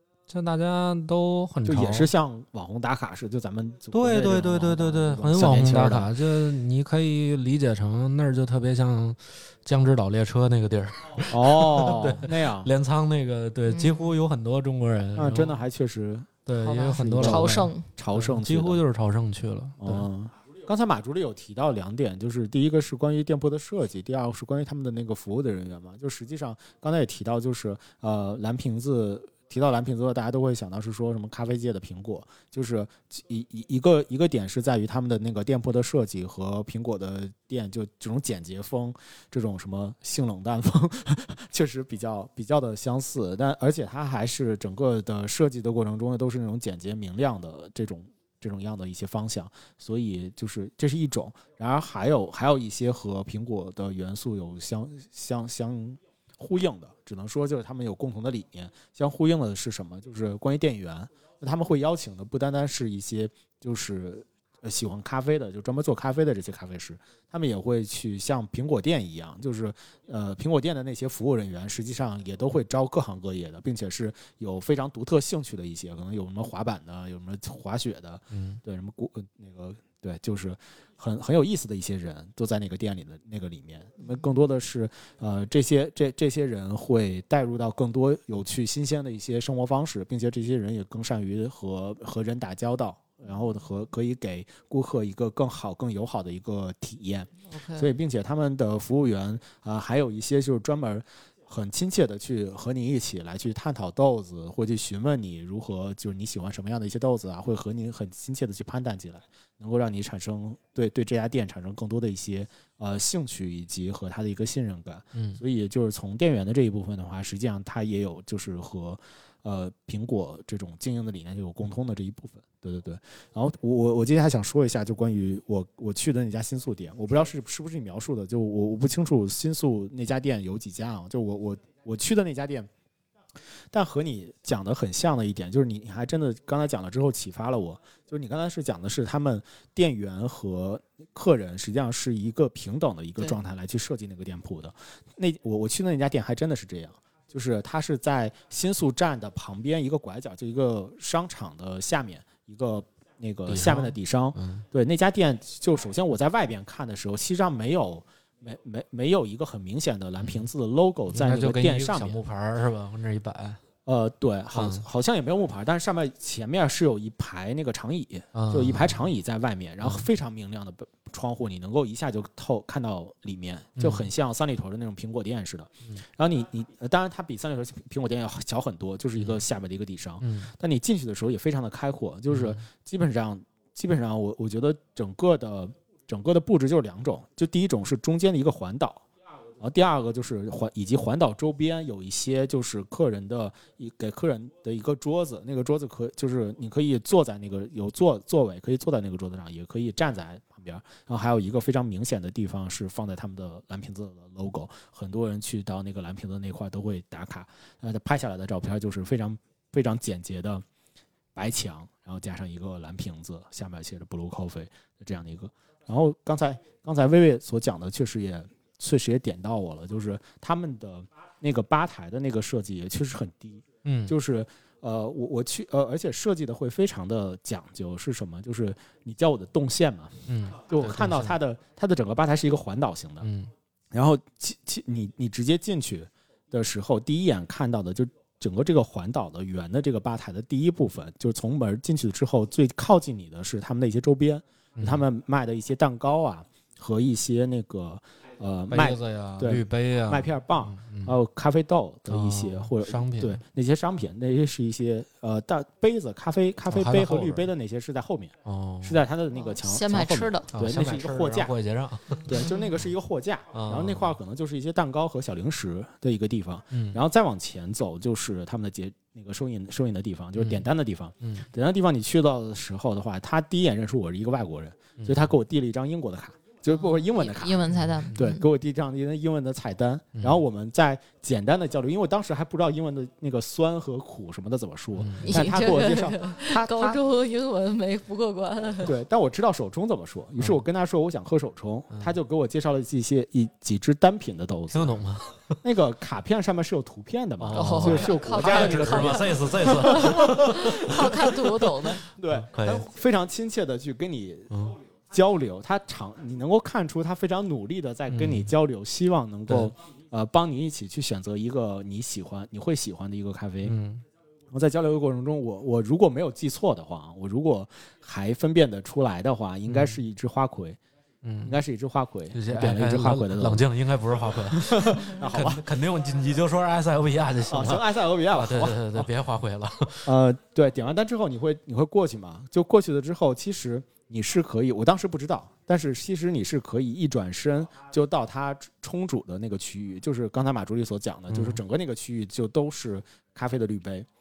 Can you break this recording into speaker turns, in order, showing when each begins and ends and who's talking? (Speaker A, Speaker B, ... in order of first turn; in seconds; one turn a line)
Speaker A: 0.3-2.1
Speaker B: 1.6-6.1
Speaker A: 3.9-15.6
Speaker B: 11.3-12.7
Speaker C: 13.7-14.2
Speaker B: 15.2-18.8
Speaker A: 16.5-20.1
Speaker C: 16.6-17.9
Speaker B: 19.8-132.7
Speaker A: 78.3-78.6
Speaker C: 97.5-97.9
Speaker A: 115.2-115.4
Speaker B: 133.7-162.2
Speaker A: 153.5-154.7
Speaker A: 160.2-160.5
Speaker A: 161.1-163.6
Speaker B: 163.9-189.0
Speaker A: 164.5-164.8
Speaker A: 168.3-169.1
Speaker A: 173.8-174.1
Speaker A: 180.2-180.5
Speaker A: 182.3-182.6
Speaker B: 189.6-210.7
Speaker B: 211.3-233.3
Speaker A: 223.8-224.2
Speaker A: 230.3-231.4
Speaker A: 233.2-233.5
Speaker B: 233.9-261.6
Speaker A: 244.8-245.1
Speaker A: 248.7-251.2
Speaker A: 252.1-253.4
Speaker A: 256.7-257.5
Speaker A: 258.4-259.0
Speaker C: 259.5-260.5
Speaker A: 260.5-262.4
Speaker B: 262.2-287.0
Speaker A: 263.5-264.1
Speaker A: 266.7-267.0
Speaker A: 270.4-270.7
Speaker A: 271.2-271.5
Speaker A: 275.0-275.3
Speaker C: 276.7-278.4
Speaker A: 277.8-278.2
Speaker A: 280.1-280.4
Speaker A: 285.0-285.5
Speaker C: 285.2-288.9
Speaker B: 288.8-295.1
Speaker A: 294.7-295.4
Speaker B: 295.6-300.7
Speaker A: 297.4-301.6
Speaker C: 297.6-302.0
Speaker B: 302.0-304.6
Speaker A: 302.3-302.9
Speaker A: 304.5-304.8
Speaker B: 305.1-313.8
Speaker A: 308.1-308.5
Speaker A: 309.5-309.7
Speaker A: 313.6-314.0
Speaker B: 314.5-320.8
Speaker A: 319.7-320.0
Speaker A: 321.2-321.6
Speaker B: 321.4-323.7
Speaker A: 322.3-330.1
Speaker B: 324.5-325.6
Speaker B: 327.5-329.1
Speaker B: 330.1-344.1
Speaker A: 341.3-341.6